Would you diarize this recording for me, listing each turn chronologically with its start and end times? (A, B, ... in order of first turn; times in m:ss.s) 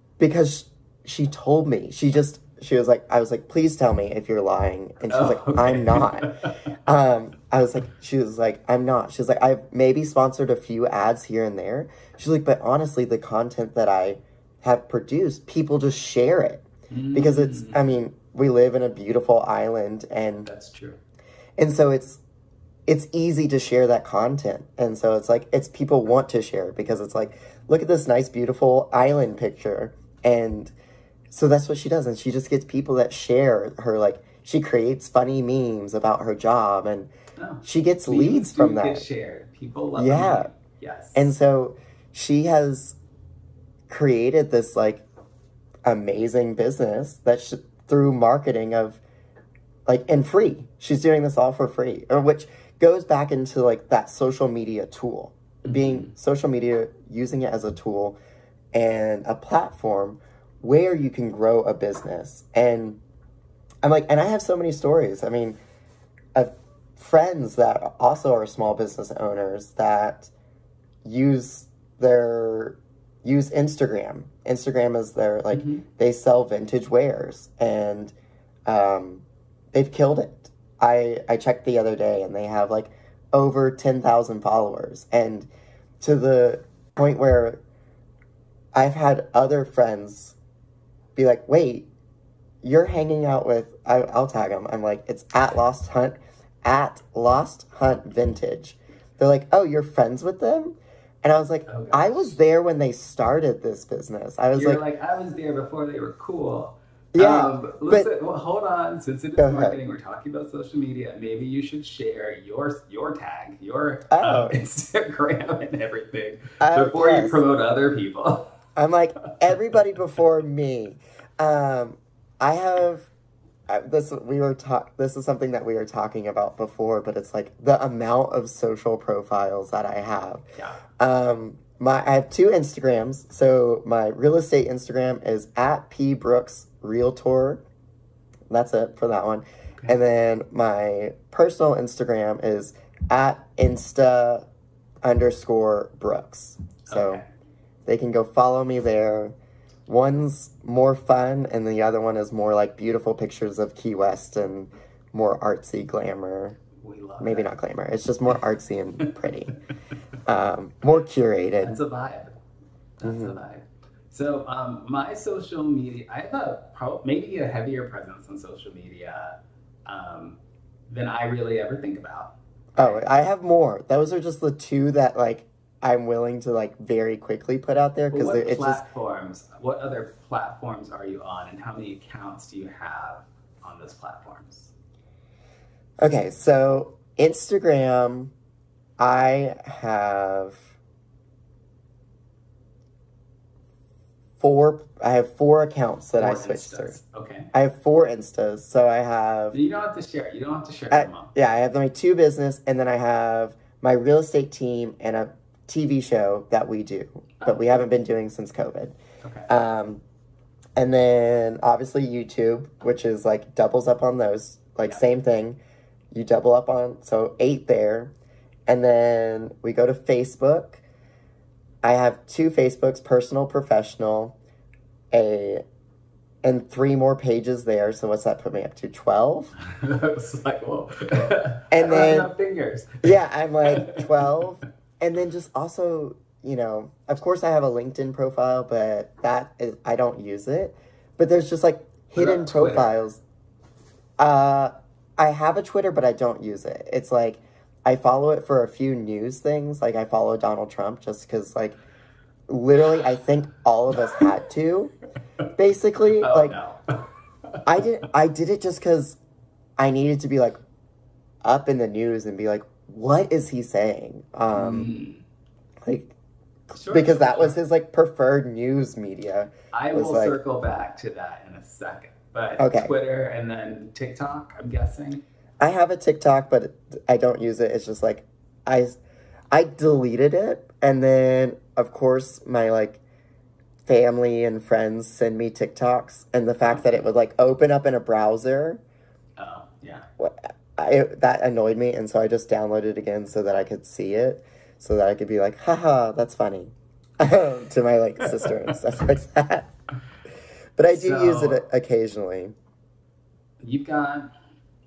0:00.2-0:20.5 A
0:05.1-0:06.7 B
0:16.9-0:17.9 B
0:20.4-0:21.0 B
0:21.6-0:22.2 A
0:22.9-0:30.7 A
0:31.3-0:37.1 A
0:37.4-0:41.3 B
0:37.6-0:39.1 A
0:40.0-0:40.5 A
0:41.1-0:43.0 A
0:43.9-0:45.0 A
0:45.8-0:49.0 A
0:49.8-0:58.2 A
0:55.6-0:56.1 B
0:58.7-1:03.0 A
1:03.8-1:05.6 A
1:06.3-1:10.3 A
1:11.0-1:18.1 A
1:15.5-1:15.8 B
1:18.6-1:25.5 A
1:26.0-1:27.6 A
1:28.7-1:30.4 A
1:31.2-1:31.9 A
1:32.6-1:44.8 A
1:41.7-1:42.3 B
1:44.5-1:58.5 B
1:47.1-1:48.1 A
1:49.4-1:49.8 A
1:54.1-1:54.6 A
1:56.6-1:57.4 A
1:58.8-2:03.1 A
2:03.7-2:10.4 A
2:10.6-2:10.8 B
2:11.0-2:17.6 A
2:18.5-2:24.4 A
2:25.0-2:27.2 A
2:26.8-2:27.3 B
2:27.8-2:29.4 A
2:29.9-2:36.6 A
2:36.7-2:37.5 B
2:37.2-2:39.6 A
2:40.2-2:41.8 A
2:41.6-2:42.4 B
2:43.0-2:50.4 B
2:43.0-2:43.4 A
2:50.9-2:53.0 B
2:52.8-2:58.8 A
2:58.1-3:04.7 B
3:06.0-3:08.3 A
3:09.0-3:10.7 A
3:14.4-3:17.0 A
3:16.1-3:17.5 B
3:17.5-3:19.6 A
3:19.5-3:21.3 B
3:20.9-3:29.0 A
3:27.4-3:27.8 B
3:29.2-3:29.5 B
3:29.5-3:30.0 A
3:30.8-3:35.6 A
3:36.1-3:38.1 A
3:38.7-3:40.8 A
3:41.8-3:44.4 A
3:45.1-3:45.6 A
3:46.4-3:49.5 A
3:49.6-3:54.3 B
3:51.7-3:52.3 A
3:53.0-4:03.2 A
4:02.2-4:02.9 B
4:04.2-4:11.8 A
4:12.5-4:14.9 A
4:15.6-4:16.6 A
4:16.2-4:17.8 B
4:17.6-4:19.2 A
4:19.8-4:20.6 A
4:21.4-4:24.9 A
4:24.5-4:25.2 B
4:25.8-4:26.1 A
4:26.7-4:30.4 A
4:26.7-4:27.6 B
4:29.7-4:35.2 B
4:32.6-4:32.9 A
4:35.6-4:39.0 A
4:39.5-4:43.0 A
4:43.8-4:48.8 A
4:49.4-4:50.1 B
4:50.2-4:59.7 A
5:00.8-5:02.6 A
5:00.9-5:01.6 B
5:03.6-5:04.3 B